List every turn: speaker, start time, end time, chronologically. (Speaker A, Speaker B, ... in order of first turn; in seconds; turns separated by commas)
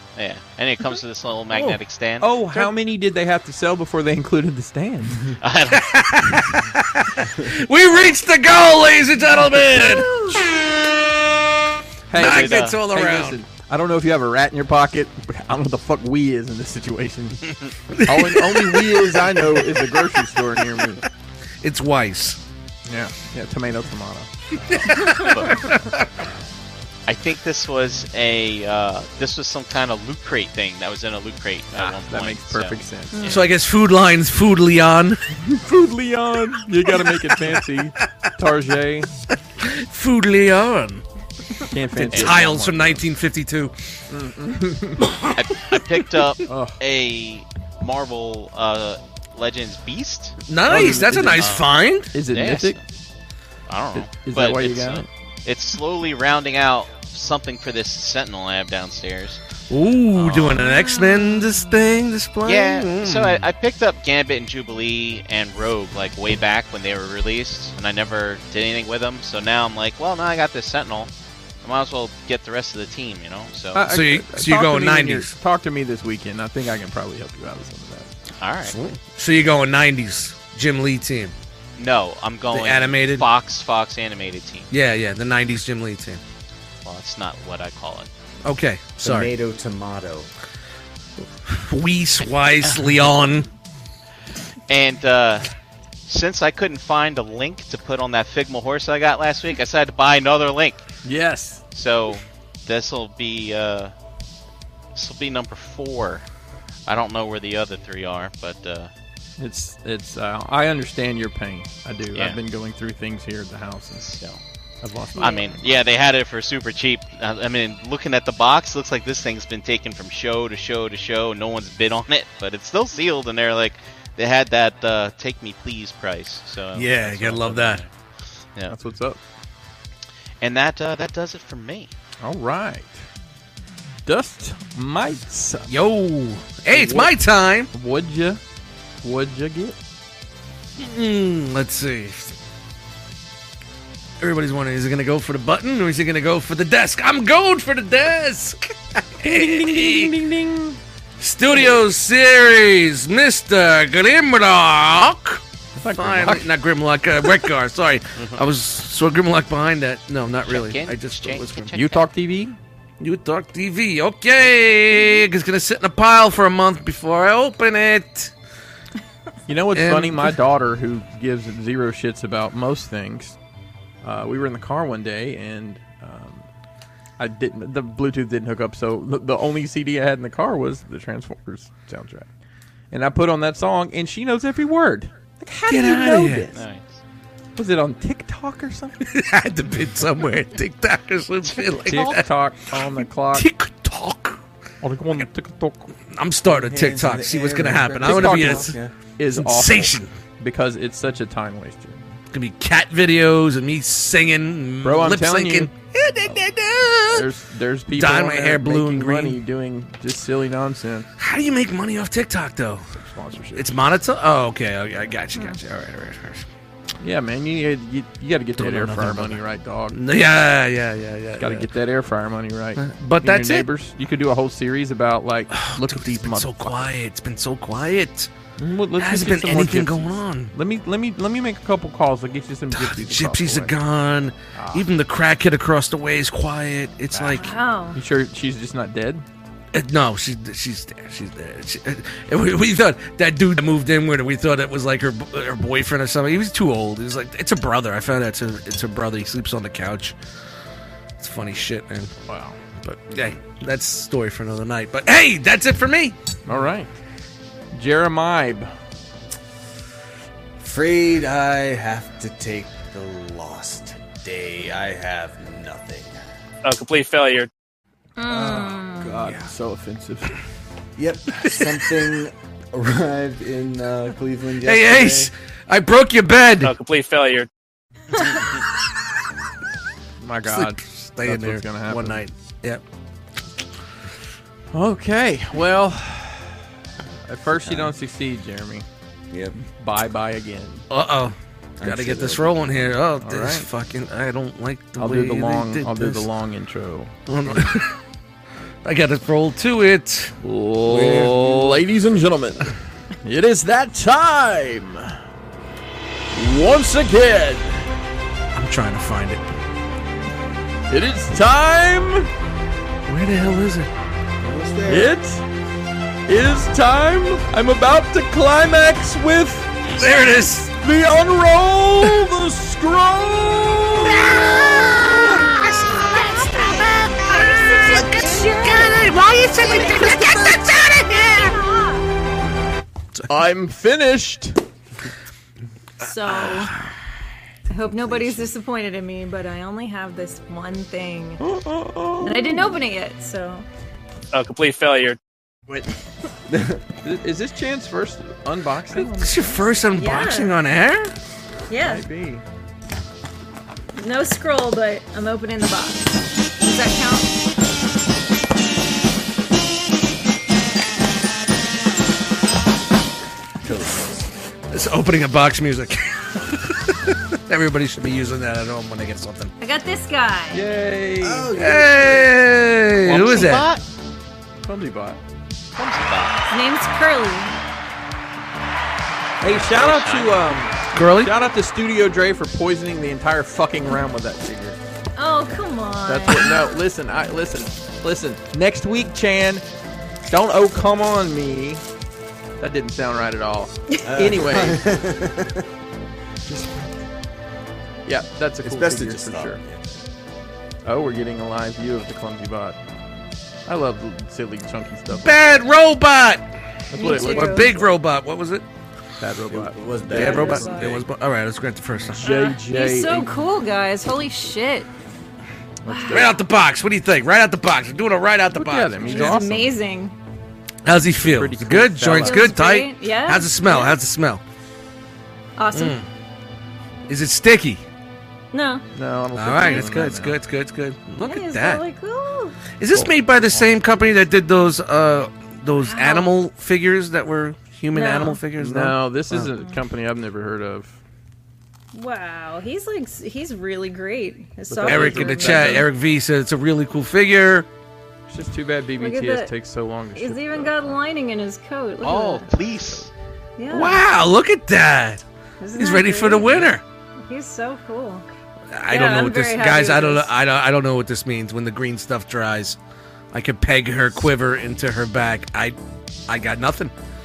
Speaker A: 0.1-2.4, Speaker B: 1.5-1.8, Speaker C: 2.2-5.4, Speaker A: 5.4-5.9, Speaker B: 5.7-10.7, Speaker D: 9.7-10.4, Speaker C: 12.1-17.5, Speaker B: 12.1-13.4, Speaker A: 12.1-12.8, Speaker B: 17.9-20.3, Speaker C: 18.0-21.0, Speaker B: 21.6-22.4, Speaker C: 22.9-24.3, Speaker B: 24.6-26.1, Speaker A: 25.1-25.6, Speaker A: 27.1-33.5, Speaker C: 31.7-33.3, Speaker D: 33.1-33.4, Speaker B: 33.3-35.4, Speaker C: 35.4-39.1, Speaker B: 36.9-37.6, Speaker B: 39.6-41.0, Speaker C: 41.6-43.0, Speaker B: 41.9-43.8, Speaker A: 42.1-42.4, Speaker C: 44.1-45.1, Speaker A: 45.3-51.7, Speaker C: 46.4-46.8, Speaker B: 50.5-52.1, Speaker C: 50.7-51.5, Speaker C: 52.1-52.8, Speaker A: 52.2-52.8, Speaker A: 53.7-59.4, Speaker C: 53.9-55.1, Speaker B: 59.7-63.4, Speaker A: 60.1-60.7, Speaker D: 60.8-61.6, Speaker A: 62.4-71.1, Speaker A: 71.6-73.9, Speaker C: 73.7-78.1, Speaker B: 73.8-75.3, Speaker A: 78.4-78.8, Speaker B: 78.6-81.3, Speaker A: 81.8-84.7, Speaker B: 82.5-83.2, Speaker B: 84.7-86.2, Speaker A: 86.8-88.1, Speaker B: 88.4-89.3, Speaker E: 89.0-90.3, Speaker B: 91.5-93.5, Speaker A: 94.7-95.5, Speaker A: 96.1-100.9, Speaker C: 101.0-101.6, Speaker A: 101.7-103.9, Speaker A: 104.9-106.2, Speaker A: 106.9-108.9, Speaker C: 109.4-114.2, Speaker A: 114.0-114.4, Speaker C: 114.8-115.7, Speaker D: 115.1-115.5, Speaker A: 115.2-127.9, Speaker B: 126.7-127.8, Speaker C: 128.7-129.2, Speaker A: 130.4-131.9, Speaker C: 132.2-133.0, Speaker C: 134.1-135.7, Speaker B: 135.7-137.7, Speaker C: 136.7-137.1, Speaker C: 137.7-138.4, Speaker C: 139.0-139.8, Speaker B: 140.8-142.3, Speaker B: 144.2-150.2, Speaker C: 149.2-150.8, Speaker B: 151.2-161.7, Speaker C: 155.8-156.5, Speaker A: 158.2-158.4, Speaker A: 160.4-162.1, Speaker C: 161.7-162.6, Speaker B: 163.0-168.3, Speaker C: 169.5-173.4, Speaker B: 169.7-170.4, Speaker C: 174.0-176.4, Speaker C: 177.2-182.3, Speaker C: 182.9-186.6, Speaker B: 185.7-186.5, Speaker A: 186.5-186.9, Speaker C: 187.6-189.0, Speaker B: 189.0-192.3, Speaker A: 191.4-191.7, Speaker C: 191.8-193.5, Speaker B: 193.3-194.4, Speaker C: 194.8-195.9, Speaker B: 196.1-198.8, Speaker E: 196.4-198.9, Speaker C: 198.0-202.0, Speaker B: 199.3-200.1, Speaker B: 202.3-207.3, Speaker C: 204.8-205.7, Speaker C: 207.1-211.1, Speaker B: 207.9-209.4, Speaker B: 211.2-212.9, Speaker C: 212.9-213.7, Speaker B: 213.5-216.4, Speaker C: 217.0-220.0, Speaker B: 218.6-219.4, Speaker B: 219.9-221.7, Speaker C: 221.4-226.8, Speaker B: 222.8-223.7, Speaker B: 225.5-228.3, Speaker C: 228.6-233.8, Speaker B: 228.9-230.5, Speaker B: 232.7-237.5, Speaker C: 234.5-234.9, Speaker C: 237.1-239.2, Speaker D: 237.3-238.0, Speaker B: 239.7-250.2, Speaker B: 251.2-252.1, Speaker C: 252.3-252.6, Speaker B: 252.8-256.2, Speaker C: 256.4-256.9, Speaker C: 257.7-258.7, Speaker E: 260.6-266.2, Speaker F: 266.6-267.5, Speaker D: 268.2-269.2, Speaker E: 268.3-269.5, Speaker C: 268.3-270.3, Speaker E: 270.9-275.3, Speaker B: 274.6-276.7, Speaker F: 276.6-277.5, Speaker C: 280.2-282.2, Speaker B: 280.4-282.8, Speaker C: 284.7-286.6, Speaker C: 287.2-288.9, Speaker E: 287.6-287.9, Speaker E: 289.3-289.6, Speaker C: 289.6-290.8, Speaker B: 290.9-296.3, Speaker E: 291.8-292.9, Speaker C: 293.2-293.7, Speaker C: 295.0-297.6, Speaker B: 297.3-298.0, Speaker B: 298.8-301.7, Speaker C: 300.4-305.2, Speaker C: 306.3-307.9, Speaker B: 308.5-309.4, Speaker C: 310.9-312.3, Speaker B: 313.0-313.9, Speaker E: 314.4-315.1, Speaker C: 314.9-315.4, Speaker C: 316.3-319.8, Speaker B: 319.9-320.8, Speaker C: 320.7-324.3, Speaker B: 324.2-331.6, Speaker D: 326.1-326.6, Speaker D: 327.2-329.1, Speaker D: 329.7-330.3, Speaker D: 331.3-332.1, Speaker C: 333.3-334.6, Speaker D: 336.0-336.7, Speaker B: 336.3-336.6, Speaker D: 337.7-341.4, Speaker E: 337.8-338.5, Speaker C: 341.4-342.8, Speaker D: 342.2-343.6, Speaker F: 344.3-345.2, Speaker E: 346.5-346.8, Speaker C: 347.0-349.7, Speaker B: 349.1-351.1, Speaker D: 349.9-350.6, Speaker D: 351.7-352.0, Speaker C: 351.8-352.4, Speaker D: 353.9-357.3, Speaker E: 363.6-364.2, Speaker B: 364.7-369.5, Speaker D: 369.6-370.8, Speaker C: 370.5-371.6, Speaker E: 371.2-372.4, Speaker B: 371.6-373.7, Speaker A: 373.1-373.8, Speaker C: 373.2-373.5, Speaker C: 374.6-375.2, Speaker A: 375.7-376.4, Speaker D: 376.5-377.5, Speaker C: 379.4-384.8, Speaker A: 379.4-380.4, Speaker B: 380.9-381.4, Speaker D: 385.1-386.8, Speaker C: 386.1-389.6, Speaker C: 390.2-391.8, Speaker C: 392.6-394.9, Speaker E: 394.1-395.7, Speaker C: 396.5-396.8, Speaker C: 398.0-399.6, Speaker E: 398.6-399.8, Speaker C: 400.9-402.8, Speaker C: 403.6-405.6, Speaker B: 405.1-408.6, Speaker C: 406.9-407.9, Speaker D: 406.9-407.7, Speaker C: 409.2-410.9, Speaker E: 409.5-411.0, Speaker B: 410.1-412.3, Speaker D: 410.1-410.9, Speaker C: 412.1-413.3, Speaker D: 412.2-414.9, Speaker C: 415.9-416.4, Speaker D: 415.9-416.3, Speaker B: 416.1-419.4, Speaker C: 418.5-419.7, Speaker D: 419.0-420.1, Speaker B: 420.8-424.4, Speaker C: 421.2-422.6, Speaker D: 422.2-424.0, Speaker D: 425.6-426.0, Speaker B: 425.7-426.1, Speaker B: 427.1-427.8, Speaker D: 428.5-428.9, Speaker C: 428.9-430.4, Speaker B: 429.3-431.8, Speaker D: 429.6-429.9, Speaker D: 431.2-432.6, Speaker B: 432.8-439.5, Speaker C: 432.9-433.7, Speaker D: 435.7-436.3, Speaker D: 437.9-438.4, Speaker C: 438.6-441.0, Speaker D: 441.9-445.9, Speaker C: 444.7-445.9, Speaker B: 444.8-447.7, Speaker C: 448.3-451.0, Speaker D: 449.0-449.5, Speaker D: 450.1-452.5, Speaker A: 452.0-453.1, Speaker D: 453.6-454.0, Speaker B: 453.7-455.2, Speaker D: 455.6-456.6, Speaker B: 455.7-456.8, Speaker D: 457.3-458.2, Speaker B: 458.7-462.8, Speaker D: 458.9-460.3, Speaker B: 463.3-465.8, Speaker B: 466.3-466.9